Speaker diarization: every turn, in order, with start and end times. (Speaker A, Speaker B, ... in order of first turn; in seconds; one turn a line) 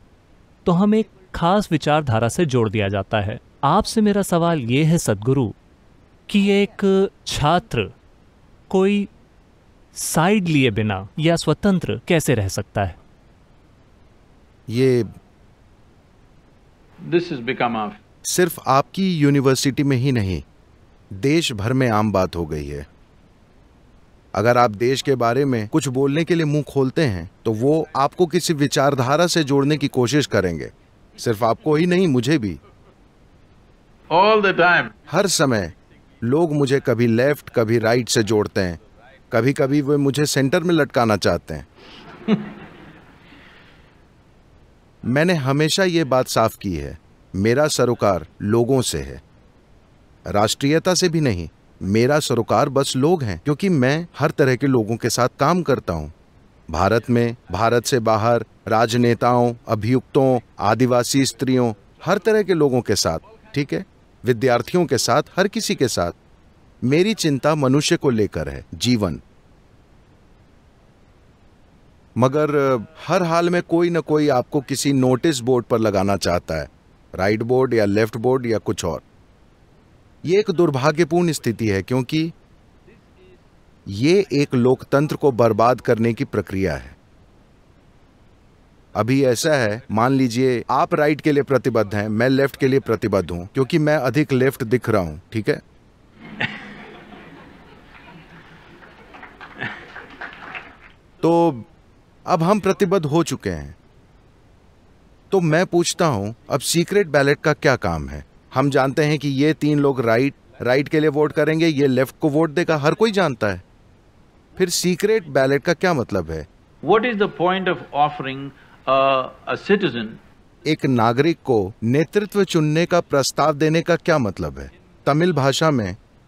Speaker A: 0.7-5.5
Speaker A: 6.3-7.9
Speaker A: 8.7-9.1
Speaker A: 10.0-13.0
Speaker B: 14.7-15.1
Speaker C: 17.0-18.0
Speaker B: 18.3-20.4
Speaker B: 21.1-22.9
Speaker B: 24.3-32.6
Speaker C: 34.1-35.0
Speaker B: 35.1-38.8
Speaker B: 39.3-41.7
Speaker B: 45.0-49.2
Speaker B: 50.3-56.1
Speaker B: 56.7-66.2
Speaker B: 66.8-69.2
Speaker B: 72.2-79.0
Speaker B: 80.2-82.3
Speaker B: 83.9-87.0
Speaker B: 89.0-95.6
Speaker B: 101.2-101.7
Speaker B: 102.3-103.8
Speaker B: 105.3-113.6
Speaker B: 114.6-116.5
Speaker C: 116.8-120.2
Speaker B: 120.7-126.0